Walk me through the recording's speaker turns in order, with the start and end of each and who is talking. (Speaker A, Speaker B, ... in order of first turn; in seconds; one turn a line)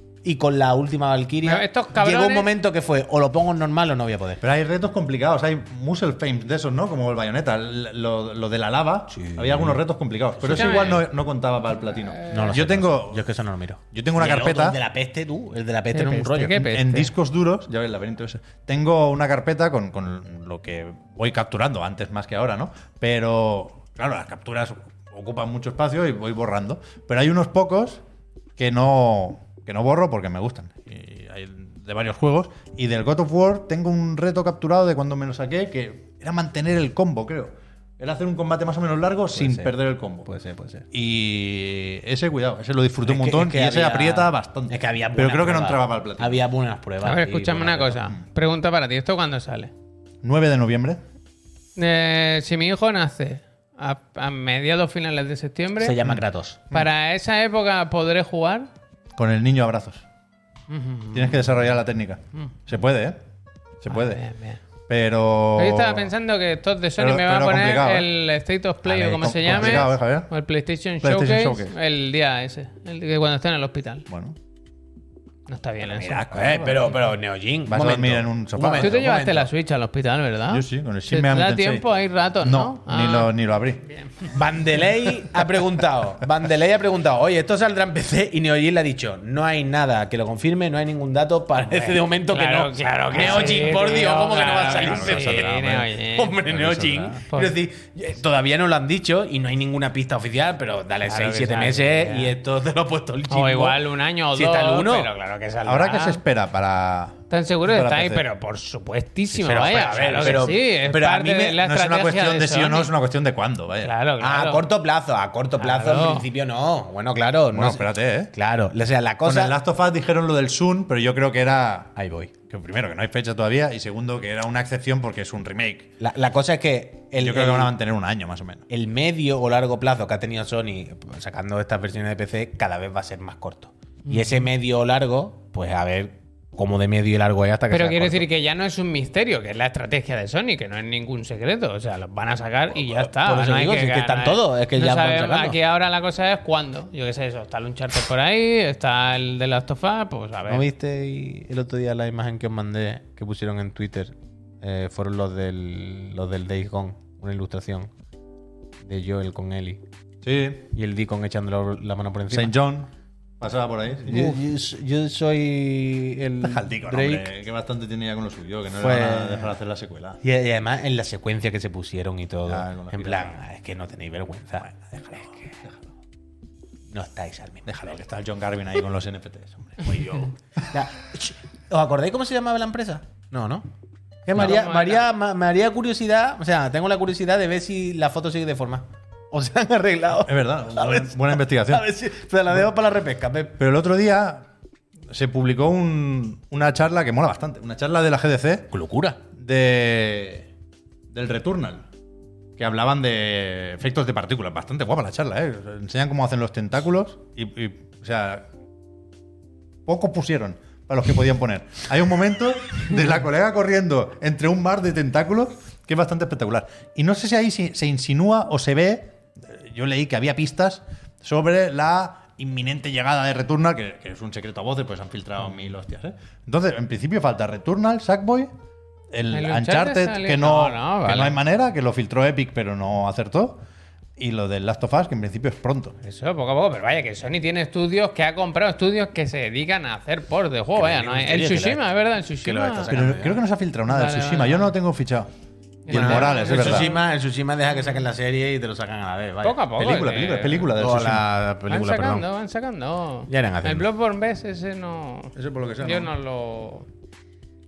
Speaker A: 0.2-4.4
Speaker B: 1.4-2.5
Speaker C: 4.4-13.2
Speaker A: 9.1-9.8
Speaker A: 10.4-11.1
Speaker B: 10.5-11.0
Speaker B: 12.2-12.5
Speaker A: 12.3-16.7
Speaker C: 13.9-14.8
Speaker B: 15.9-17.1
Speaker C: 16.6-28.0
Speaker C: 28.6-40.3
Speaker A: 39.4-39.7
Speaker A: 40.3-40.9
Speaker C: 40.9-46.4
Speaker A: 43.0-48.1
Speaker B: 47.0-49.7
Speaker C: 50.2-51.0
Speaker B: 51.8-56.0
Speaker A: 55.8-56.6
Speaker C: 56.0-56.9
Speaker B: 56.7-58.7
Speaker C: 59.1-60.0
Speaker B: 60.7-61.5
Speaker C: 61.1-63.2
Speaker C: 63.8-64.2
Speaker B: 63.9-64.6
Speaker C: 64.9-66.1
Speaker B: 65.6-74.1
Speaker C: 67.0-68.1
Speaker C: 68.8-70.3
Speaker A: 69.5-69.8
Speaker C: 71.0-71.7
Speaker C: 74.1-74.4
Speaker B: 75.5-76.3
Speaker C: 75.8-77.0
Speaker A: 76.3-79.5
Speaker C: 77.7-78.9
Speaker B: 78.8-84.3
Speaker C: 80.5-81.9
Speaker C: 82.4-83.8
Speaker A: 84.2-106.1
Speaker B: 92.3-96.4
Speaker C: 94.7-95.9
Speaker C: 96.4-97.2
Speaker B: 97.3-97.6
Speaker B: 101.0-102.3
Speaker B: 103.3-105.2
Speaker C: 105.7-108.2
Speaker B: 105.9-106.2
Speaker B: 107.3-112.9
Speaker A: 109.3-111.6
Speaker C: 111.6-113.9
Speaker B: 113.8-114.7
Speaker A: 114.2-119.6
Speaker B: 115.6-116.3
Speaker C: 117.5-118.3
Speaker C: 119.2-121.9
Speaker A: 122.0-122.3
Speaker C: 122.5-125.9
Speaker A: 126.0-127.7
Speaker C: 127.2-128.7
Speaker A: 128.7-138.3
Speaker B: 134.1-134.4
Speaker B: 137.7-150.7
Speaker A: 142.7-145.6
Speaker A: 150.5-157.9
Speaker A: 158.9-159.8
Speaker C: 160.2-160.7
Speaker A: 160.7-162.5
Speaker C: 162.3-164.4
Speaker A: 164.1-167.3
Speaker C: 166.4-170.2
Speaker A: 168.8-169.5
Speaker A: 170.2-175.5
Speaker C: 172.5-173.4
Speaker C: 174.6-175.8
Speaker A: 176.9-178.0
Speaker C: 177.7-180.3
Speaker A: 179.9-183.7
Speaker A: 184.3-193.6
Speaker B: 184.3-185.1
Speaker C: 190.2-191.9
Speaker C: 193.6-194.5
Speaker C: 195.1-198.7
Speaker A: 198.7-199.2
Speaker C: 199.3-200.5
Speaker C: 201.1-201.9
Speaker C: 202.6-208.5
Speaker C: 209.9-228.5
Speaker C: 229.1-233.6
Speaker B: 229.3-231.4
Speaker C: 234.2-236.0
Speaker B: 236.0-242.9
Speaker A: 240.7-241.8
Speaker A: 242.4-243.4
Speaker C: 242.9-245.3
Speaker B: 243.9-244.7
Speaker B: 245.9-247.1
Speaker C: 245.9-246.9
Speaker A: 245.9-249.6
Speaker B: 249.4-250.7
Speaker C: 249.8-251.3
Speaker A: 250.8-252.3
Speaker B: 251.7-256.9
Speaker A: 253.3-253.8
Speaker C: 255.4-256.1